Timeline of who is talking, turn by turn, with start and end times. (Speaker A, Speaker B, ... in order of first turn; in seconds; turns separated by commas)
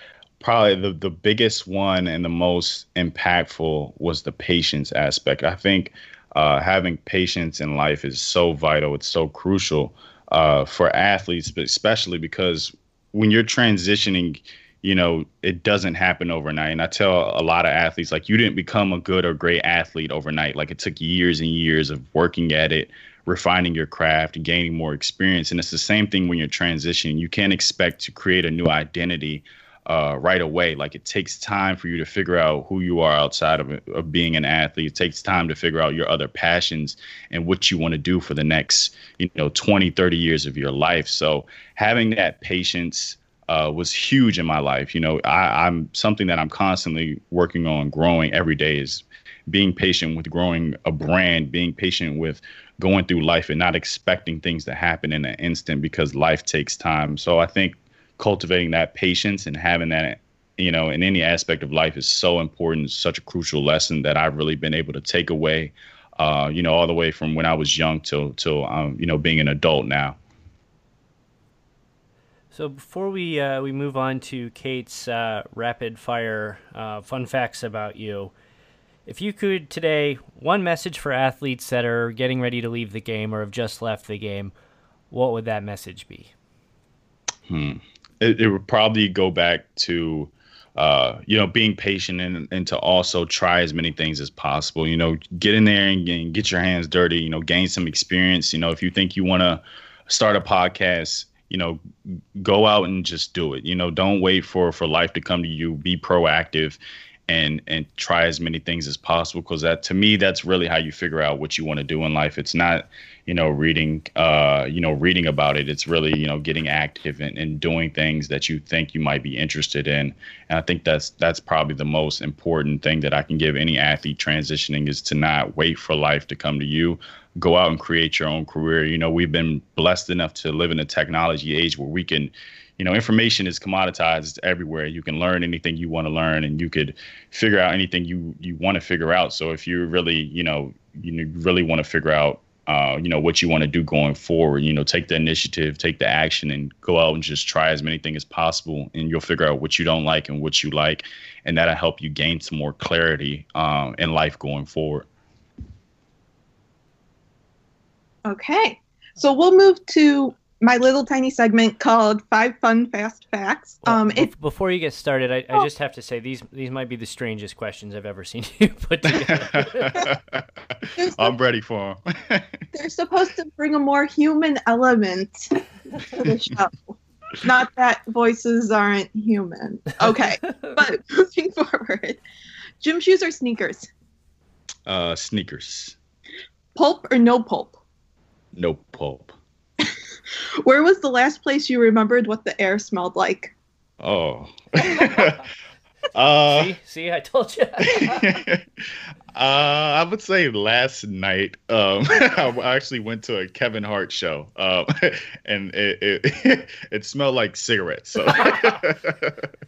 Speaker A: 0.4-70.2, Speaker B: 72.5-78.3, Speaker B: 79.0-84.5, Speaker B: 85.1-86.3, Speaker A: 87.5-101.8, Speaker A: 102.4-155.1, Speaker C: 158.2-164.3, Speaker B: 163.8-170.1, Speaker A: 169.2-172.6, Speaker C: 171.0-171.3, Speaker C: 172.7-182.2, Speaker C: 182.8-183.9, Speaker A: 184.8-185.9, Speaker C: 186.7-187.8, Speaker A: 188.5-189.3, Speaker C: 190.6-193.5, Speaker A: 194.0-195.4, Speaker A: 196.1-196.7, Speaker B: 196.5-198.3, Speaker A: 197.8-198.7, Speaker A: 199.3-209.5